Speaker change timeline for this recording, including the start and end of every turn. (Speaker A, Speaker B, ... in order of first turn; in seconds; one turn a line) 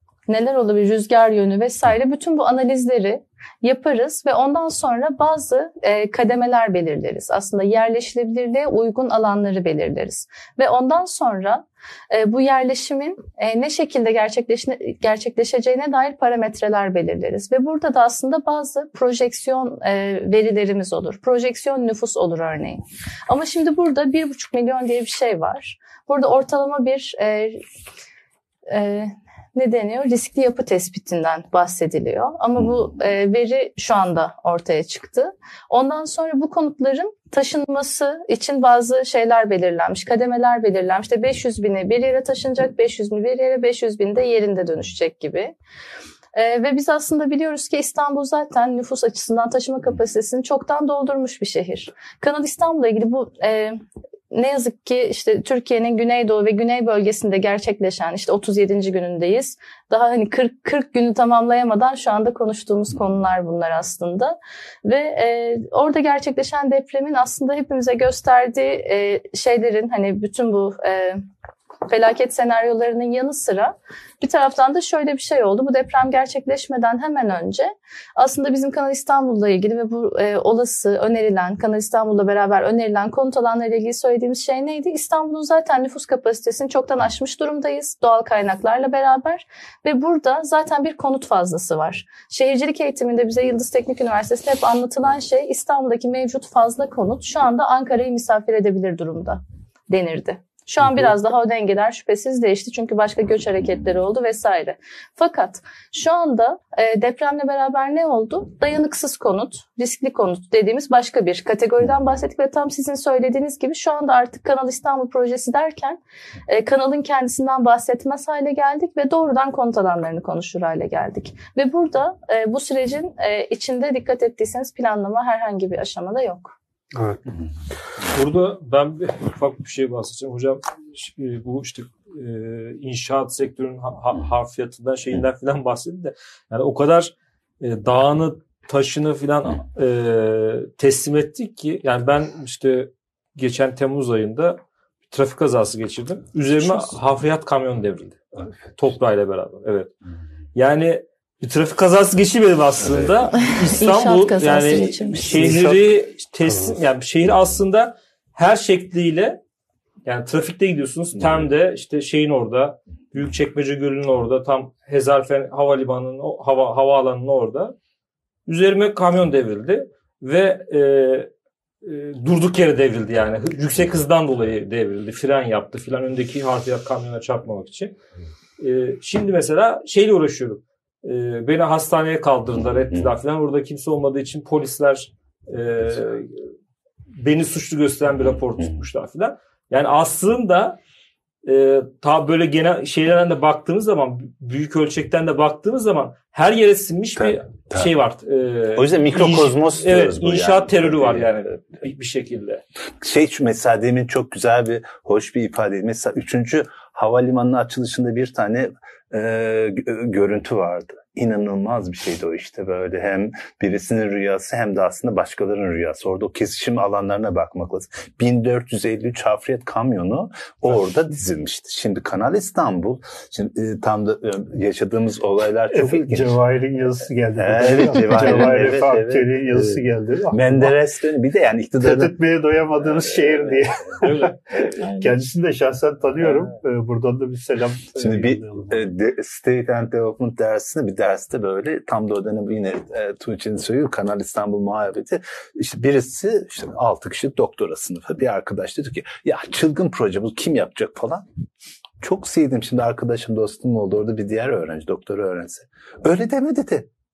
Speaker A: 0.3-27.6
Speaker A: 28.7-45.5
Speaker A: 46.3-71.2
Speaker A: 71.9-126.5
Speaker B: 126.9-127.2
Speaker C: 128.1-149.9
Speaker C: 150.5-159.4
Speaker A: 153.3-155.5
Speaker B: 155.2-155.8
Speaker C: 160.0-167.8
Speaker C: 168.4-171.3
Speaker C: 171.8-178.0
Speaker C: 178.6-186.4
Speaker C: 187.1-190.8
Speaker C: 191.4-202.6
Speaker D: 197.3-197.9
Speaker D: 198.7-201.3
Speaker D: 203.0-226.3
Speaker B: 225.7-230.7
Speaker D: 227.4-232.1
Speaker B: 231.8-238.8
Speaker C: 234.0-235.1
Speaker D: 237.9-251.2
Speaker D: 252.0-256.9